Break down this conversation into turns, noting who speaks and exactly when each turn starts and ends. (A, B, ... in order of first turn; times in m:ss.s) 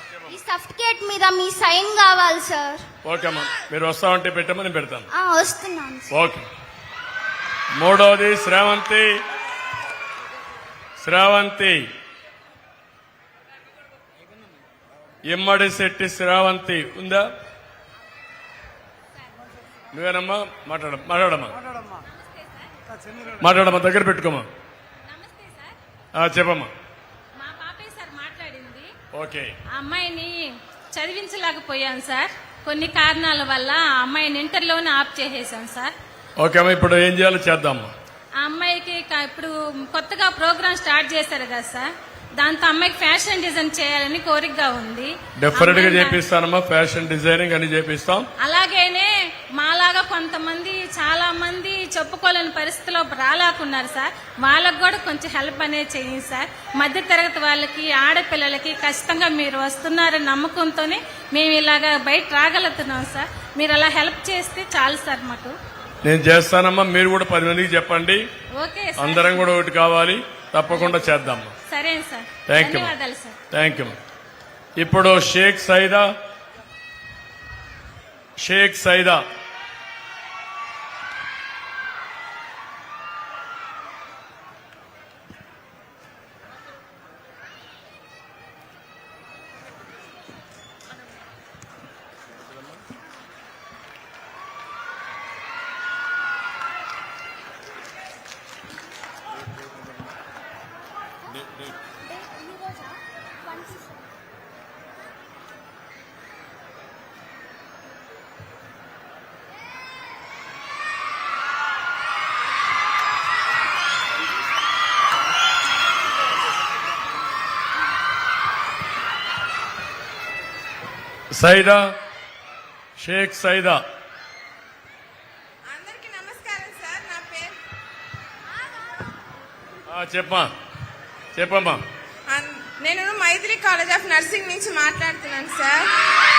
0:00.3-0:02.8 A
0:03.0-0:05.1 B
0:05.1-0:06.1 A
0:06.1-0:06.5 B
0:07.8-0:09.2 B
0:11.0-0:11.8 B
0:15.3-0:17.3 B
0:19.9-0:21.6 B
0:22.0-0:22.7 C
0:23.4-0:24.5 B
0:25.1-0:25.8 C
0:26.2-0:26.7 B
0:27.4-0:28.9 C
0:29.1-0:29.5 B
0:29.7-0:35.9 C
0:36.4-0:37.9 B
0:38.4-0:41.9 C
0:42.4-0:46.2 C
0:45.4-0:48.3 B
0:48.4-1:05.5 C
1:06.0-1:08.2 B
1:08.6-1:09.5 C
1:09.0-1:11.5 B
1:10.7-1:13.4 C
1:12.5-1:12.9 B
1:13.5-1:13.9 B
1:14.8-1:16.1 B
1:18.4-1:19.2 B
1:42.1-1:43.0 C
1:43.5-1:43.8 C
2:01.3-2:01.8 B
2:03.0-2:03.8 B
2:05.7-2:07.6 D
2:09.9-2:10.5 B
2:11.4-2:11.8 B
2:12.3-2:15.9 D